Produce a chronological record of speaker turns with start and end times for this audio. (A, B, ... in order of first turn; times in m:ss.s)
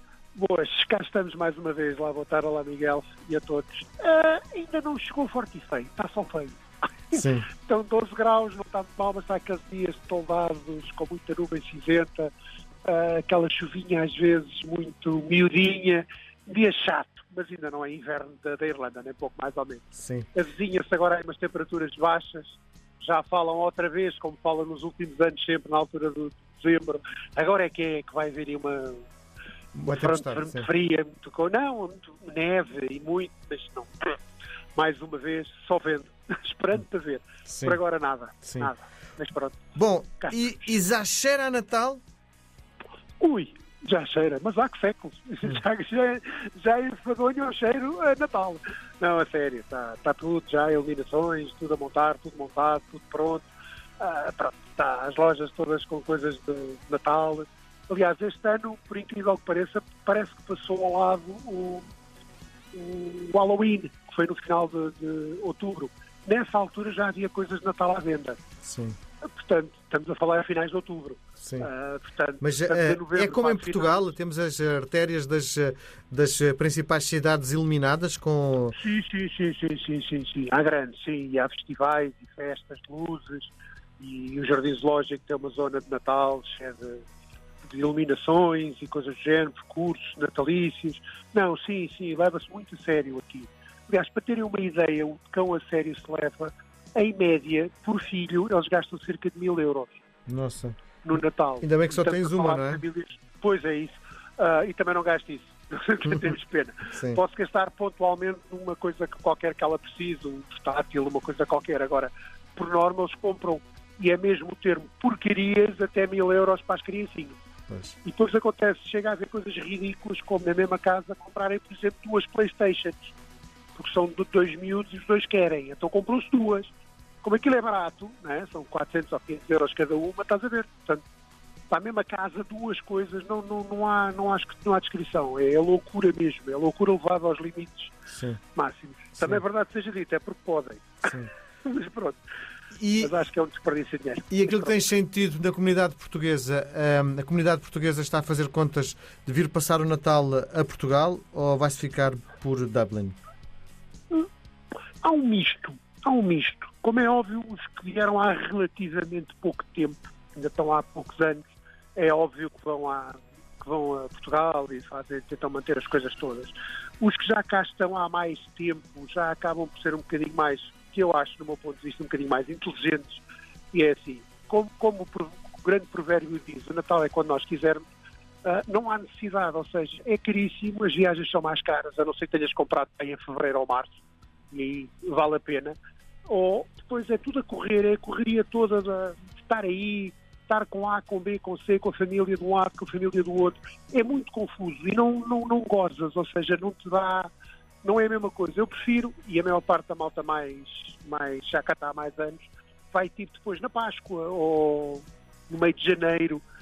0:00.3-0:06.6 A
0:07.1-0:12.3 A
0:07.1-0:07.5 B
0:12.8-0:29.0 A
0:20.0-0:20.2 B
0:29.7-0:30.7 B
0:29.9-0:34.1 A
0:34.7-0:39.6 A
0:37.5-0:37.8 B
0:38.4-0:38.7 B
0:39.8-0:42.0 B
0:43.2-0:53.5 A
0:54.0-1:01.9 A
1:02.7-1:08.4 A
1:08.6-1:09.0 B
1:09.2-1:14.0 A
1:11.4-1:11.7 B
1:12.4-1:18.8 B
1:18.8-1:27.0 A
1:27.6-1:40.0 A
1:40.3-1:40.8 B
1:41.0-1:57.4 A
1:41.6-1:42.8 B
1:46.9-1:47.2 B
1:57.7-1:57.9 B
1:58.0-2:03.1 A
2:03.7-2:06.7 A
2:07.2-2:11.0 A
2:11.7-2:17.9 A
2:18.1-2:18.4 B
2:18.5-2:22.2 A
2:22.7-2:23.1 B
2:23.0-2:24.8 A
2:24.3-2:33.2 B
2:35.0-2:57.8 A
2:58.4-3:04.0 A
3:04.5-3:17.3 A
3:17.8-3:26.4 A